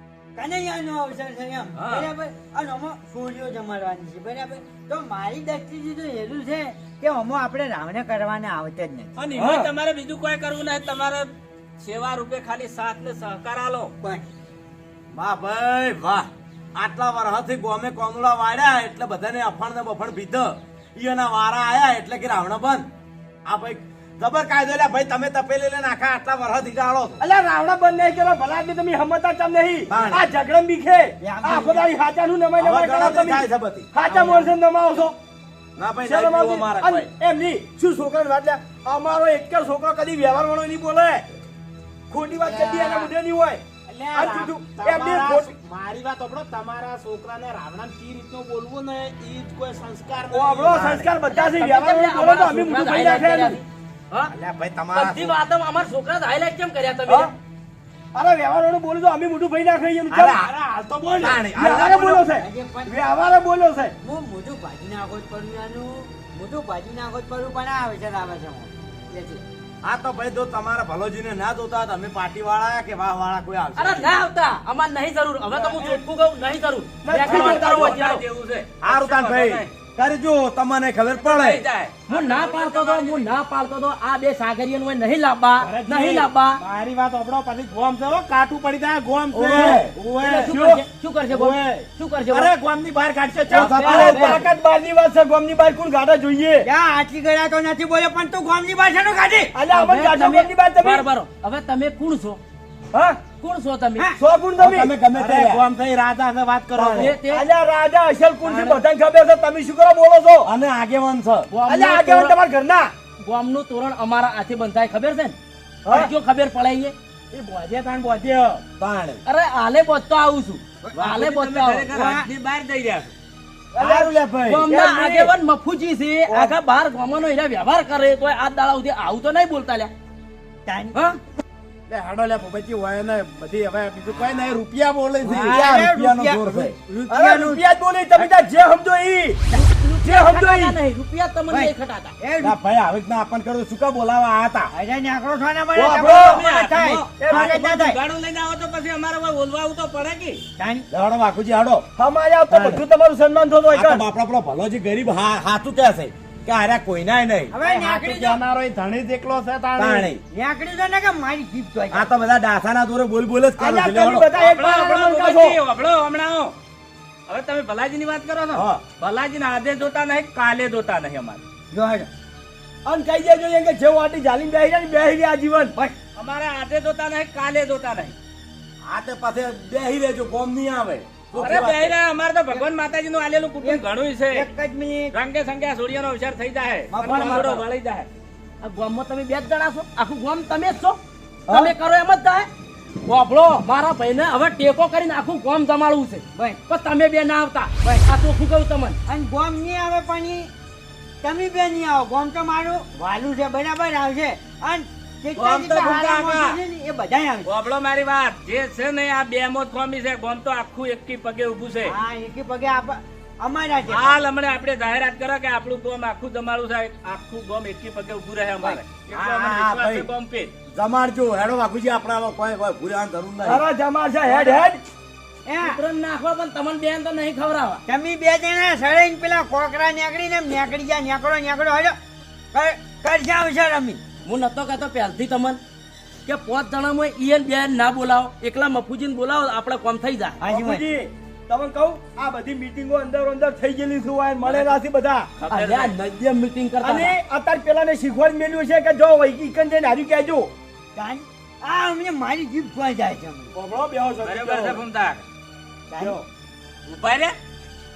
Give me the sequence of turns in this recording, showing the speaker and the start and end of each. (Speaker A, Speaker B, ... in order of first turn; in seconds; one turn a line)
Speaker A: 0.3-9.1
Speaker B: 9.2-13.9
Speaker C: 9.4-9.7
Speaker D: 15.1-22.9
Speaker D: 23.4-27.2
Speaker C: 27.2-35.1
Speaker D: 29.9-30.2
Speaker A: 31.2-31.9
Speaker D: 32.6-33.9
Speaker A: 34.1-34.5
Speaker D: 35.8-37.1
Speaker C: 36.0-41.2
Speaker C: 42.1-43.6
Speaker E: 42.3-43.1
Speaker E: 43.9-51.1
Speaker C: 44.1-45.5
Speaker C: 50.3-53.6
Speaker F: 51.3-54.3
Speaker D: 54.3-55.4
Speaker F: 54.9-57.3
Speaker C: 58.1-60.4
Speaker D: 60.1-60.5
Speaker E: 60.3-61.4
Speaker D: 61.2-62.3
Speaker C: 61.2-63.9
Speaker A: 62.3-63.0
Speaker A: 64.0-69.4
Speaker D: 69.8-74.1
Speaker F: 73.8-78.2
Speaker A: 75.5-76.0
Speaker C: 77.0-78.2
Speaker B: 77.1-79.7
Speaker D: 78.8-81.6
Speaker B: 81.1-83.3
Speaker F: 82.1-86.6
Speaker E: 85.6-90.5
Speaker D: 89.3-89.9
Speaker C: 89.5-90.8
Speaker F: 90.2-92.5
Speaker E: 91.3-93.8
Speaker C: 93.5-96.7
Speaker A: 93.5-94.5
Speaker F: 93.5-94.4
Speaker A: 96.6-99.5
Speaker C: 99.5-101.0
Speaker F: 99.7-102.4
Speaker C: 102.9-103.2
Speaker F: 103.4-104.1
Speaker C: 104.2-104.9
Speaker D: 104.6-105.6
Speaker E: 105.2-107.1
Speaker D: 106.8-107.1
Speaker F: 106.9-107.5
Speaker C: 107.2-110.5
Speaker D: 108.4-108.8
Speaker D: 110.4-111.5
Speaker F: 111.5-112.4
Speaker C: 111.7-112.9
Speaker F: 113.2-115.3
Speaker F: 115.9-116.9
Speaker E: 117.3-118.6
Speaker D: 118.8-119.2
Speaker F: 119.2-121.9
Speaker B: 121.0-123.1
Speaker A: 121.9-122.3
Speaker A: 123.7-124.2
Speaker D: 123.8-124.7
Speaker F: 124.5-129.9
Speaker A: 130.7-131.0
Speaker E: 131.9-134.6
Speaker D: 134.4-136.7
Speaker A: 135.2-137.6
Speaker C: 137.1-139.4
Speaker F: 139.5-142.1
Speaker C: 140.0-140.8
Speaker A: 141.5-142.6
Speaker D: 142.4-144.7
Speaker A: 144.7-148.0
Speaker B: 145.8-150.4
Speaker C: 145.9-146.5
Speaker C: 147.2-147.5
Speaker A: 150.6-150.9
Speaker D: 150.9-151.9
Speaker C: 151.9-154.0
Speaker D: 152.5-152.8
Speaker D: 153.7-157.5
Speaker A: 157.5-158.4
Speaker E: 157.6-160.1
Speaker D: 159.8-160.2
Speaker A: 160.3-162.1
Speaker D: 161.9-164.3
Speaker C: 163.6-165.6
Speaker B: 164.3-166.6
Speaker B: 167.3-171.4
Speaker D: 168.5-168.8
Speaker A: 171.7-172.1
Speaker C: 172.8-175.7
Speaker B: 176.2-178.1
Speaker D: 178.8-181.9
Speaker B: 181.3-184.5
Speaker A: 183.6-185.2
Speaker B: 185.1-188.1
Speaker D: 186.9-187.5
Speaker A: 187.1-187.6
Speaker F: 187.1-187.5
Speaker F: 188.6-192.5
Speaker A: 191.5-191.7
Speaker F: 193.0-199.0
Speaker A: 196.3-196.6
Speaker A: 199.1-200.5
Speaker A: 201.2-207.5
Speaker B: 205.3-206.6
Speaker B: 207.4-211.9
Speaker A: 211.8-214.2
Speaker B: 213.9-220.5
Speaker D: 219.1-220.1
Speaker D: 220.7-223.6
Speaker C: 223.4-224.8
Speaker F: 224.3-224.6
Speaker A: 225.4-225.8
Speaker F: 225.6-227.8
Speaker A: 227.8-231.9
Speaker A: 232.5-234.0
Speaker F: 234.2-235.6
Speaker F: 236.2-240.4
Speaker A: 240.4-240.9
Speaker C: 240.5-245.3
Speaker B: 244.4-244.8
Speaker B: 245.4-245.9
Speaker F: 245.5-247.2
Speaker C: 246.8-250.5
Speaker A: 250.9-253.5
Speaker C: 253.5-254.8
Speaker B: 254.2-255.2
Speaker A: 255.9-256.2
Speaker B: 256.9-257.4